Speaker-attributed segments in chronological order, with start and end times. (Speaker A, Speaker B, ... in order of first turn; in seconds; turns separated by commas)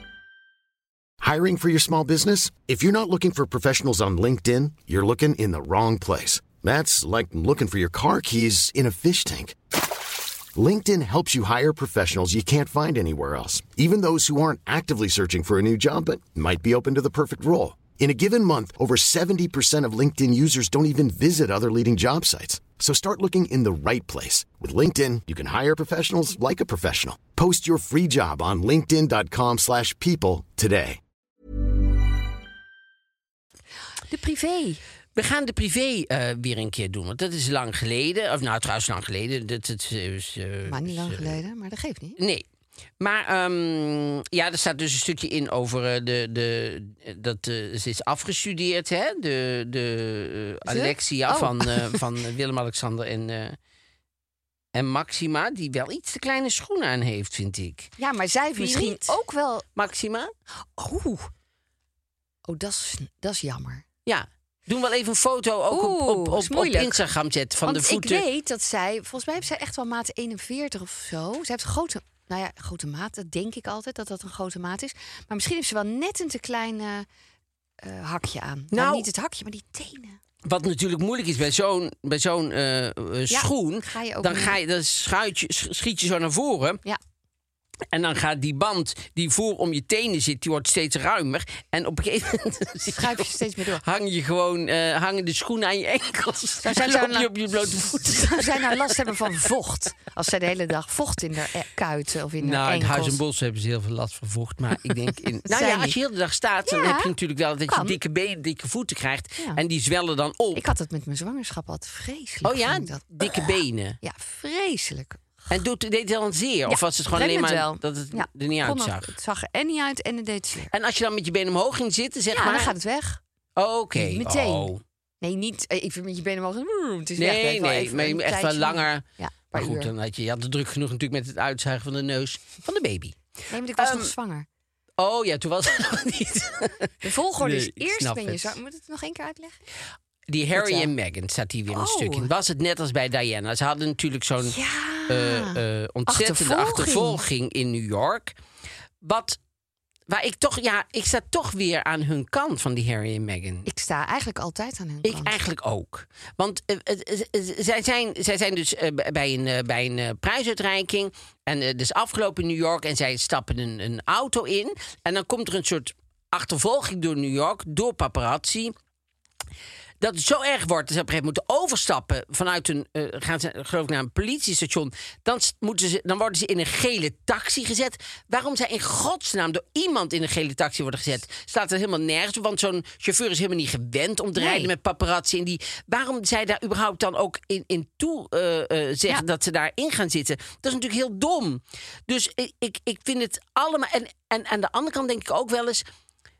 Speaker A: 1.2-9.6, Speaker A: 10.5-31.0, Speaker B: 34.1-34.8, Speaker C: 35.1-41.4, Speaker B: 40.6-42.2, Speaker C: 42.2-42.4, Speaker C: 43.0-53.6, Speaker B: 50.6-52.0, Speaker C: 54.7-57.9, Speaker B: 58.0-59.6, Speaker C: 58.6-59.1, Speaker C: 59.8-60.3, Speaker B: 60.8-61.3, Speaker B: 62.5-63.8, Speaker C: 64.0-68.2, Speaker B: 65.7-67.0, Speaker B: 67.6-77.0, Speaker B: 77.8-80.2, Speaker C: 78.7-79.1, Speaker C: 80.4-86.8, Speaker B: 83.3-84.6, Speaker C: 87.9-93.3, Speaker B: 92.9-93.8, Speaker C: 93.8-99.3, Speaker B: 96.6-103.2, Speaker C: 102.4-110.6, Speaker B: 105.5-106.0, Speaker B: 106.7-107.1, Speaker B: 107.7-108.0, Speaker B: 110.5-115.6, Speaker C: 112.4-114.0, Speaker C: 115.5-119.1, Speaker B: 116.7-120.7, Speaker C: 120.7-122.7, Speaker B: 122.3-123.2, Speaker C: 123.5-124.8, Speaker B: 123.9-129.9, Speaker C: 127.2-133.2, Speaker B: 133.5-134.4, Speaker C: 133.8-134.1, Speaker C: 135.0-138.6, Speaker B: 137.0-139.6, Speaker C: 140.3-144.6, Speaker B: 140.5-140.9, Speaker B: 141.7-142.3, Speaker B: 144.4-147.2, Speaker C: 145.1-148.3, Speaker C: 149.0-149.4, Speaker C: 150.1-153.7, Speaker B: 153.7-155.4, Speaker C: 155.0-168.7, Speaker C: 170.0-195.8, Speaker B: 184.3-184.7